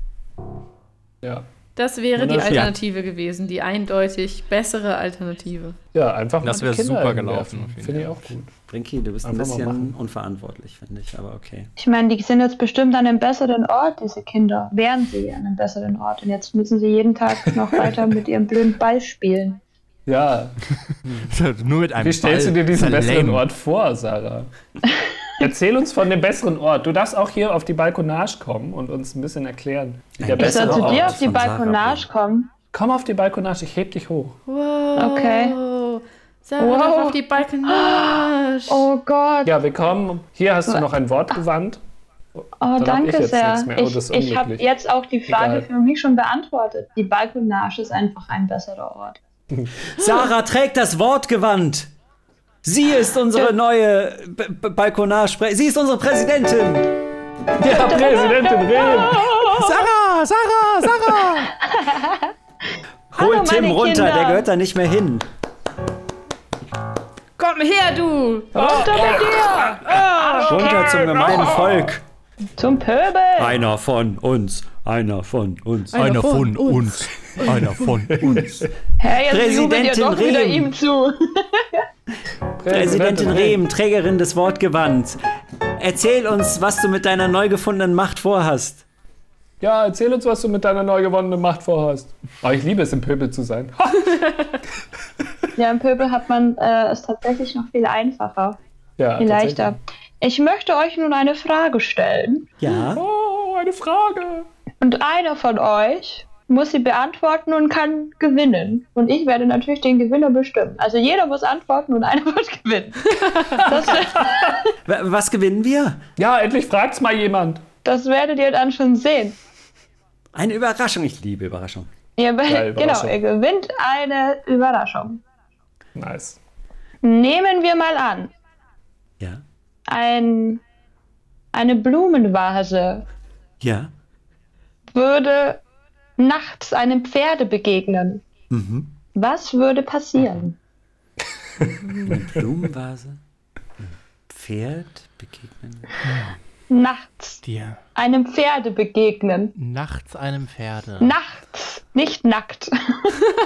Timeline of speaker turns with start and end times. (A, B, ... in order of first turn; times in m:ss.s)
0:01.8-0:05.8 A
0:02.2-0:02.7 B
0:05.9-0:08.5 B
0:06.4-0:08.2 C
0:08.7-0:11.7 D
0:09.2-0:09.9 B
0:11.8-0:19.6 E
0:17.6-0:17.9 B
0:20.0-0:20.6 B
0:21.3-0:23.4 C
0:22.0-0:24.5 B
0:25.4-0:31.2 B
0:30.2-0:32.0 D
0:30.4-0:32.5 E
0:32.7-0:34.4 B
0:34.5-0:38.9 A
0:35.0-0:35.6 E
0:36.6-0:37.2 E
0:37.7-0:39.5 E
0:39.4-0:41.8 B
0:42.6-0:49.2 E
0:42.8-0:44.6 B
0:45.3-0:45.6 B
0:49.5-0:49.8 B
0:49.9-0:51.9 D
0:52.6-0:57.0 D
0:57.6-0:59.8 B
0:57.6-0:59.3 E
0:59.3-1:01.5 C
1:01.6-1:02.3 E
1:03.1-1:05.3 D
1:03.2-1:04.4 E
1:07.4-1:09.3 A
1:08.5-1:11.9 B
1:08.6-1:11.3 E
1:10.4-1:12.0 D
1:12.6-1:13.6 E
1:13.4-1:16.0 D
1:15.9-1:17.7 A
1:15.9-1:18.5 C
1:18.1-1:18.7 B
1:18.2-1:20.7 D
1:19.0-1:21.8 E
1:22.6-1:23.6 B
1:22.6-1:25.2 D
1:25.8-1:28.8 D
1:29.6-1:34.4 B
1:35.6-1:38.6 E
1:39.0-1:39.8 B
1:39.2-1:42.5 E
1:42.6-1:43.0 D
1:42.9-1:44.5 B
1:44.8-1:54.7 E
1:53.4-1:54.5 B
1:54.8-1:56.0 D
1:56.2-1:57.6 B
1:57.8-1:59.4 E
2:00.3-2:01.9 D
2:02.2-2:05.2 E
2:02.5-2:03.2 B
2:05.9-2:06.4 B
2:07.0-2:08.3 E
2:09.9-2:10.6 E
2:11.5-2:13.0 E
2:13.6-2:13.9 D
2:14.9-2:15.6 E
2:16.2-2:18.2 E
2:18.5-2:18.9 D
2:19.1-2:20.6 E
2:21.6-2:22.0 B
2:22.0-2:23.2 D
2:23.8-2:25.9 D
2:26.0-2:26.3 C
2:26.7-2:27.4 E
2:27.4-2:27.8 C
2:27.9-2:29.5 E
2:29.6-2:31.1 C
2:31.0-2:33.2 E